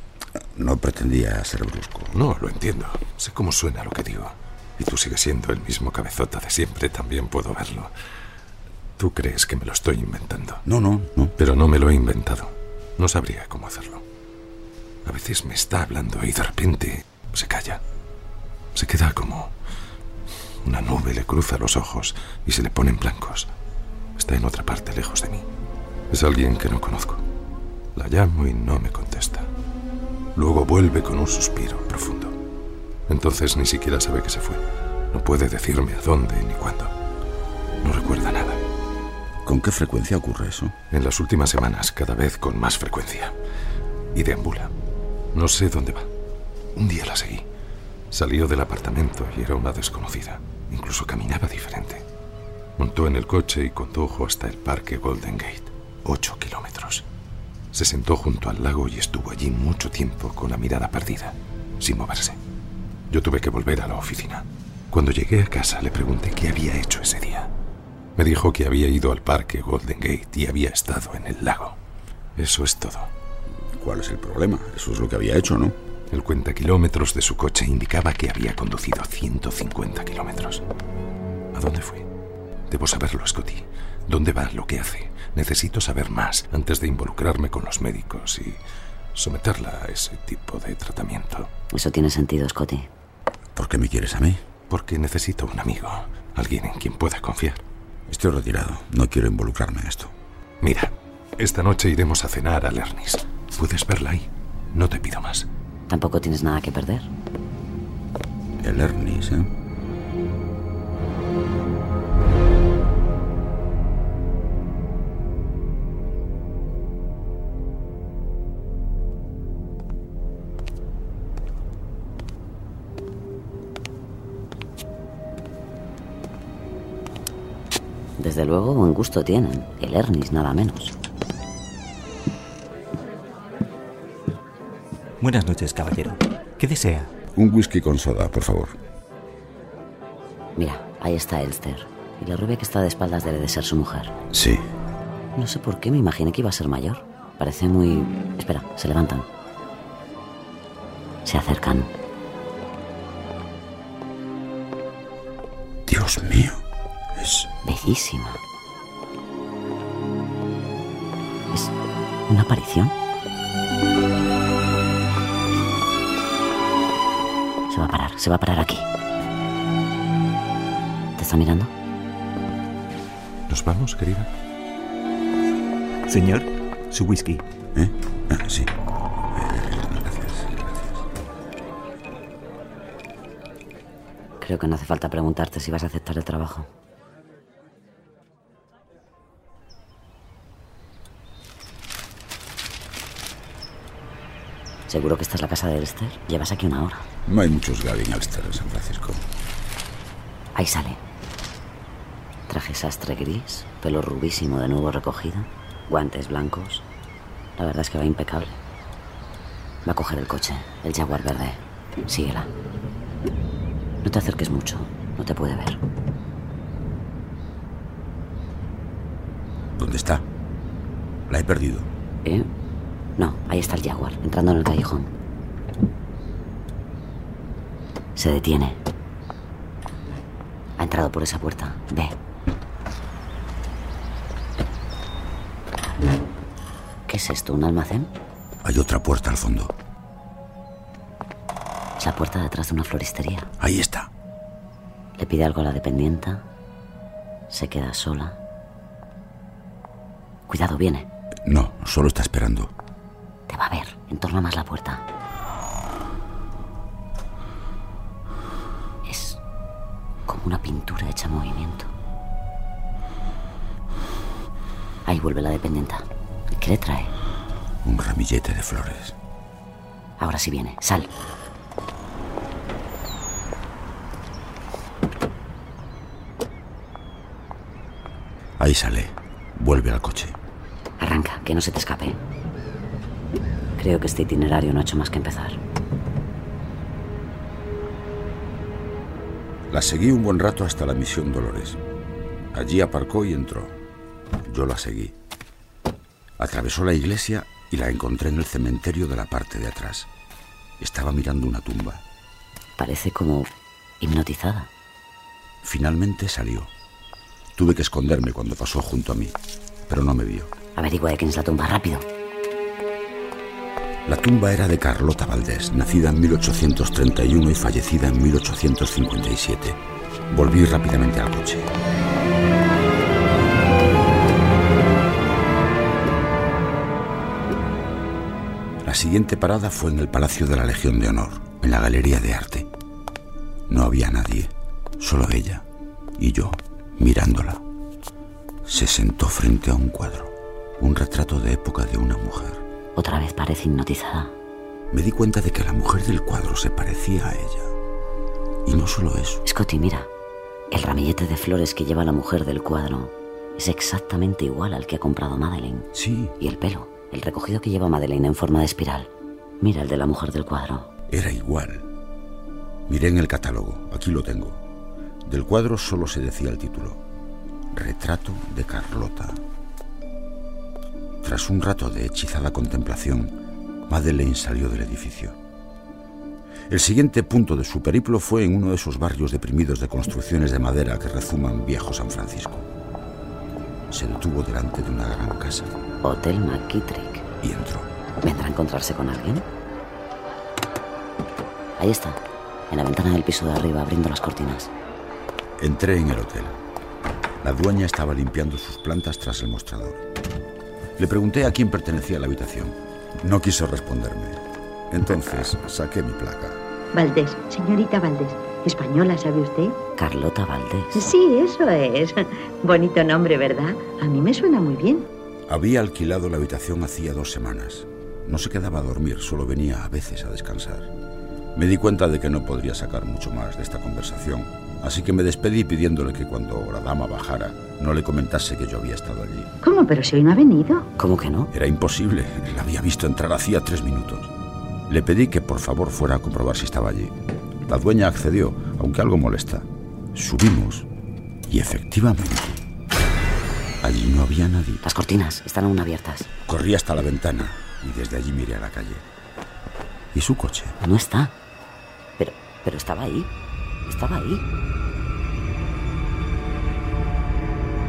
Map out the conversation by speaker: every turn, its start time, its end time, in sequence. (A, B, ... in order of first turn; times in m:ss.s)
0:00.5-0:02.2 A
0:02.1-0:07.9 B
0:09.0-0:10.6 B
0:10.6-0:11.3 A
0:11.4-0:14.0 B
0:15.0-0:17.8 B
0:18.7-0:19.5 B
0:20.6-0:23.5 B
0:24.2-0:25.4 B
0:26.1-0:27.2 B
0:28.0-0:29.5 B
0:30.4-0:32.4 B
0:33.1-0:34.6 B
0:35.1-0:36.9 B
0:37.8-0:38.6 B
0:39.4-0:40.7 A
0:40.9-0:43.3 B
0:44.1-0:44.7 B
0:45.3-0:46.1 B
0:46.8-0:47.4 B
0:48.1-0:52.0 B
0:52.8-0:57.0 B
0:57.7-1:02.4 B
1:03.1-1:07.5 B
1:08.2-1:11.8 B
1:12.4-1:13.1 B
1:13.8-1:15.8 A
1:16.1-1:20.6 B
1:21.5-1:22.1 B
1:22.7-1:28.6 B
1:29.1-1:31.5 B
1:31.7-1:32.9 C
1:33.5-1:34.4 A
1:34.7-1:37.6 B
1:38.1-1:40.1 A
1:40.6-1:45.5 B
1:45.9-1:47.1 C
1:48.6-1:49.5 A
2:08.2-2:10.9 C
2:15.2-2:17.1 D
2:17.3-2:18.7 A
2:20.6-2:24.1 C
2:24.3-2:24.6 A
2:25.4-2:29.3 C
2:31.2-2:31.9 C
2:35.8-2:36.6 A
2:37.2-2:37.5 A
2:37.6-2:38.4 C
2:42.3-2:42.9 C
2:47.7-2:48.8 C
2:51.2-2:51.7 C
2:53.5-2:54.3 B
2:56.1-2:57.4 D
2:57.7-2:58.7 A
2:59.3-3:01.0 A
3:04.4-3:06.7 C
3:14.9-3:17.1 C
3:17.2-3:19.2 A
3:20.5-3:21.0 C
3:22.5-3:26.8 C
3:27.6-3:28.6 C
3:29.8-3:32.5 C
3:34.0-3:35.8 C
3:39.8-3:40.2 A
3:41.3-3:41.9 A
3:43.2-3:45.1 C
3:48.1-3:48.8 C
3:50.8-3:52.1 C
3:57.1-3:58.1 C
3:58.6-3:59.7 A
4:02.0-4:03.5 C
4:03.6-4:04.1 A
4:05.2-4:06.4 C
4:07.5-4:08.4 C
4:10.5-4:11.1 C
4:11.4-4:12.7 A
4:13.5-4:15.0 C
4:19.0-4:19.4 C
4:20.3-4:21.9 C
4:25.0-4:27.1 C
4:27.8-4:29.1 A
4:30.2-4:31.1 C
4:38.6-4:40.4 A
4:41.0-4:42.2 C
4:43.8-4:45.6 C
4:49.7-4:51.8 A
4:52.5-4:53.8 A
4:54.4-4:55.1 A
4:56.4-5:00.1 A
5:00.8-5:02.0 A
5:02.8-5:04.7 C
5:05.6-5:06.7 A
5:07.5-5:09.4 A
5:09.9-5:10.5 A
5:10.8-5:12.1 C
5:14.0-5:21.7 A
5:28.8-5:32.7 A
5:33.7-5:35.6 A
5:36.2-5:37.6 A
5:38.6-5:42.6 A
5:43.0-5:44.3 C
5:44.9-5:47.7 A
5:48.6-5:49.4 A
5:49.4-5:50.1 C
5:50.7-6:00.9 C
5:55.9-5:56.3 A
6:01.1-6:01.9 A
6:02.9-6:04.6 A
6:05.2-6:07.0 A
6:07.7-6:09.4 A
6:11.2-6:13.3 A
6:13.9-6:15.4 A
6:16.7-6:22.7 A
6:23.9-6:25.7 A
6:26.0-6:27.2 C
6:27.4-6:27.9 A
6:28.2-6:29.4 C
6:31.8-6:34.7 C
6:35.6-6:36.6 A
6:37.4-6:40.0 A
6:41.0-6:46.6 A
6:46.9-6:49.8 E
6:50.0-6:51.1 C
6:50.9-6:55.1 E
6:55.5-7:00.9 A
7:01.5-7:09.5 A
7:09.6-7:10.9 E
7:11.0-7:11.5 C
7:11.5-7:14.3 A
7:14.9-7:17.1 A
7:17.7-7:20.9 A
7:21.5-7:22.6 A
7:23.8-7:24.8 A
7:24.8-7:26.3 C
7:26.4-7:29.0 A
7:30.1-7:30.8 A
7:30.8-7:31.3 C
7:32.2-7:33.3 C
7:33.9-7:34.4 C